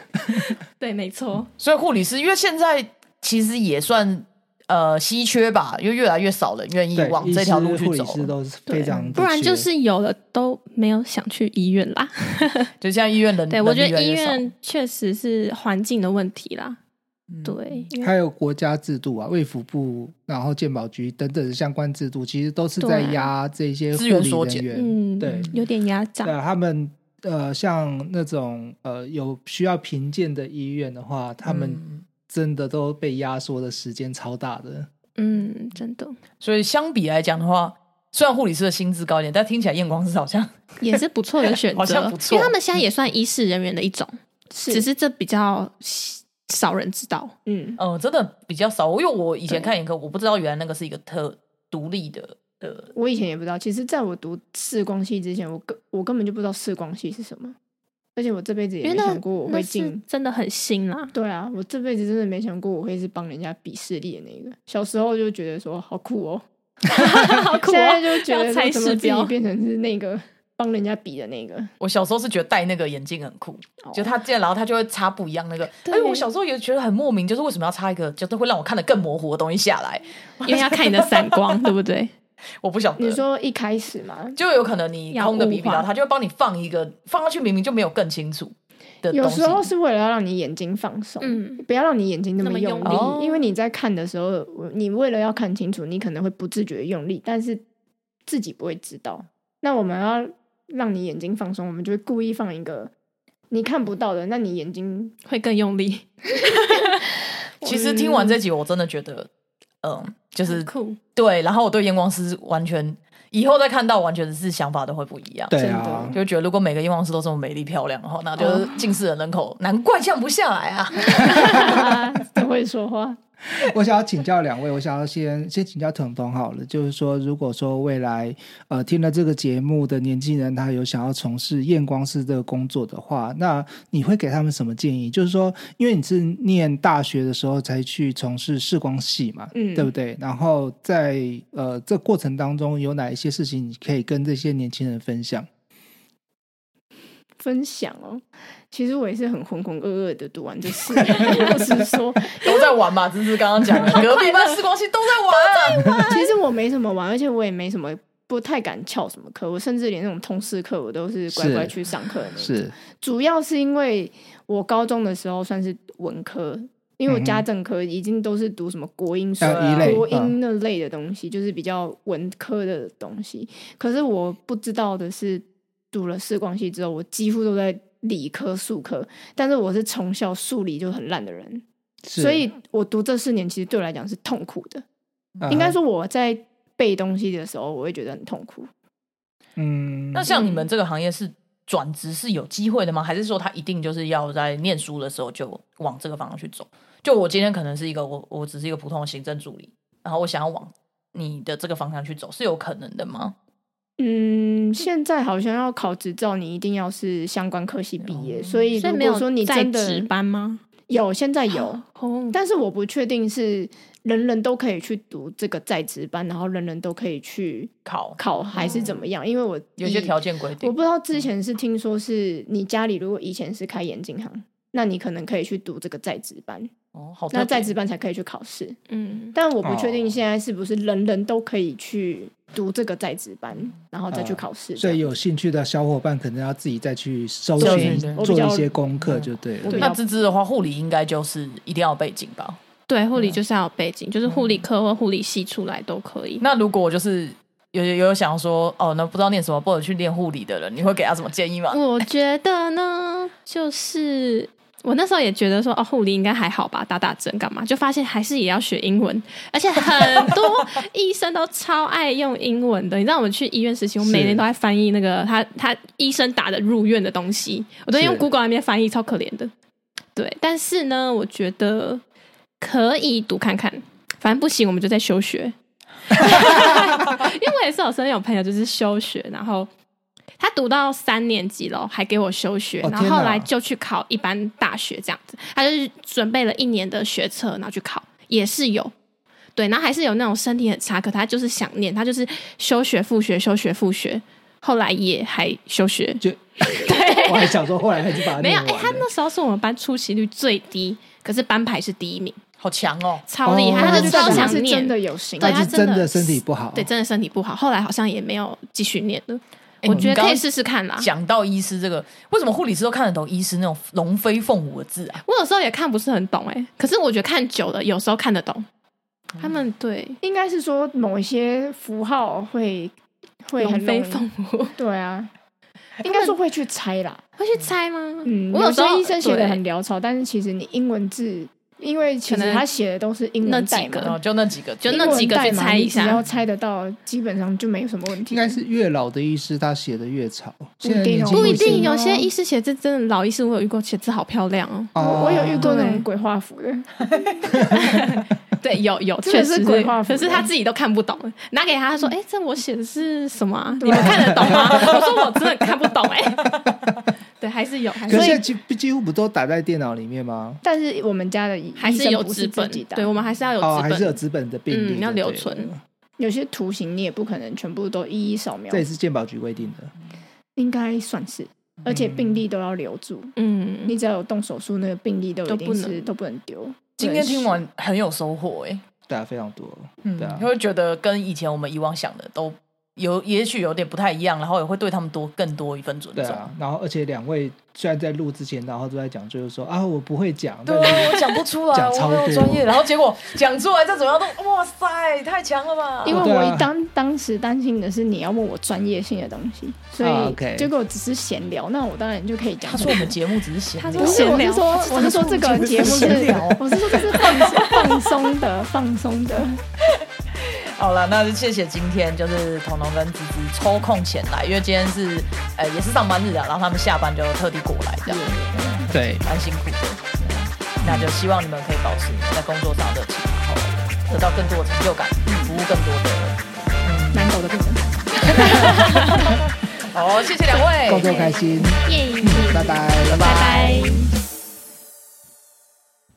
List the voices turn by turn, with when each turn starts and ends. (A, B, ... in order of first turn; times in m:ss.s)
0:00.3-0:01.5 A
0:01.6-0:08.3 B
0:06.9-0:09.7 C
0:08.7-0:12.7 A
0:08.9-0:09.2 B
0:12.8-0:14.4 B
0:13.5-0:16.8 A
0:17.3-0:17.8 B
0:17.4-0:18.1 A
0:18.0-0:25.5 C
0:22.8-0:23.3 A
0:23.9-0:24.6 B
0:24.7-0:26.3 A
0:25.3-0:25.5 B
0:26.2-0:34.9 C
0:31.4-0:32.0 B
0:35.2-0:36.2 A
0:36.4-0:40.7 B
0:40.8-0:44.2 A
0:41.7-0:42.6 B
0:44.5-0:44.9 D
0:44.7-0:47.3 A
0:47.4-0:47.8 D
0:47.8-0:52.9 B
0:52.9-0:57.6 D
0:58.2-1:00.0 D
0:58.8-1:01.1 A
1:01.1-1:06.4 D
1:06.8-1:09.3 A
1:07.3-1:11.7 D
1:11.8-1:21.7 B
1:13.8-1:14.2 D
1:15.8-1:16.2 A
1:20.4-1:22.1 A
1:22.6-1:23.2 B
1:23.0-1:24.4 D
1:24.4-1:29.7 B
1:25.1-1:25.9 A
1:29.1-1:37.6 D
1:31.2-1:31.6 A
1:32.4-1:33.2 A
1:32.8-1:33.4 B
1:38.2-1:42.9 D
1:43.5-1:45.1 D
1:45.2-1:47.0 A
1:47.6-1:49.3 B
1:47.7-1:48.3 D
1:49.8-1:55.5 B
1:50.4-1:51.0 A
1:55.5-1:56.2 C
1:55.5-1:56.2 D
1:56.1-2:01.7 B
2:01.0-2:03.2 D
2:01.2-2:01.7 C
2:03.5-2:25.5 C
2:19.5-2:19.9 D
2:27.4-2:32.7 D
2:32.4-2:36.0 B
2:33.8-2:34.6 A
2:35.3-2:36.3 A
2:36.1-3:01.6 D
2:41.3-2:41.7 C
2:42.4-2:42.7 C
2:47.1-2:47.4 C
2:49.4-2:50.4 C
2:49.4-2:50.0 B
3:02.0-3:02.4 C
3:02.2-3:04.8 D
3:05.4-3:05.8 C
3:05.5-3:08.7 D
3:09.6-3:10.3 C
3:10.1-3:23.3 B
3:10.3-3:10.6 D
3:24.0-3:30.1 D
3:28.0-3:28.6 B
3:28.7-3:30.6 A
3:30.9-3:31.8 D
3:31.5-3:32.4 A
3:32.3-3:46.7 D
3:37.8-3:39.0 B
3:39.8-3:41.2 B
3:46.9-3:47.7 B
3:47.3-3:48.8 D
3:48.9-3:49.4 A
3:49.3-3:55.1 D
3:49.6-3:50.2 C
3:54.1-3:59.9 C
3:57.6-3:58.8 D
3:57.6-3:58.3 B
3:59.0-4:02.6 B
3:59.6-4:00.0 D
4:02.9-4:06.4 A
4:06.4-4:11.8 B
4:11.7-4:29.5 A
4:24.0-4:24.4 C
4:27.9-4:28.2 C
4:30.1-4:32.0 A
4:32.6-4:35.5 A
4:36.1-4:39.7 A
4:40.4-4:48.9 A
4:42.8-4:43.5 C
4:49.6-4:57.6 A
4:56.2-4:59.1 C
4:58.2-5:02.4 A
5:02.6-5:03.2 B
5:03.3-5:11.1 A
5:03.4-5:04.6 C
5:03.7-5:05.7 D
5:05.4-5:06.9 C
5:09.8-5:10.4 B
5:09.9-5:10.2 C
5:11.0-5:15.2 B
5:15.2-5:18.6 A
5:19.4-5:20.2 A
5:20.2-5:22.9 D
5:23.4-5:24.2 D
5:23.6-5:24.7 A
5:24.8-5:25.3 D
5:26.0-5:27.2 D
5:27.4-5:29.6 A
5:28.2-5:34.2 D
5:32.3-5:32.6 A
5:33.4-5:34.2 A
5:34.0-5:35.5 B
5:34.8-5:38.6 D
5:34.8-5:36.2 A
5:36.0-5:36.4 B
5:38.3-5:41.9 C
5:40.8-5:42.3 D
5:41.3-5:45.0 A
5:44.9-5:45.7 C
5:45.0-5:46.9 D
5:45.5-5:46.0 A
5:47.8-5:56.5 A
5:49.2-5:50.5 D
5:53.8-5:54.8 D
5:54.0-5:54.7 C
5:54.6-5:55.0 B
5:57.4-5:58.4 A
5:58.1-6:00.6 C
6:00.6-6:03.1 D
6:01.8-6:05.7 A
6:03.6-6:05.8 C
6:06.2-6:08.8 D
6:08.7-6:09.9 C
6:10.6-6:13.3 D
6:11.9-6:12.4 C
6:13.4-6:13.9 A
6:13.8-6:17.6 D
6:15.5-6:16.1 A
6:17.0-6:18.8 B
6:19.1-6:20.5 C
6:20.0-6:26.5 B
6:26.2-6:32.6 C
6:30.6-6:36.2 B
6:36.0-6:43.1 D
6:36.1-6:36.7 C
6:40.0-6:40.7 C
6:42.6-6:48.2 B
6:43.8-6:46.4 A
6:44.0-6:49.6 D
6:49.8-7:07.4 B
6:58.1-6:58.8 D
6:58.9-6:59.2 C
7:00.8-7:01.1 C
7:05.2-7:05.6 D
7:07.1-7:09.3 D
7:08.3-7:11.1 B
7:10.8-7:13.3 C
7:11.0-7:14.1 A
7:13.0-7:14.1 B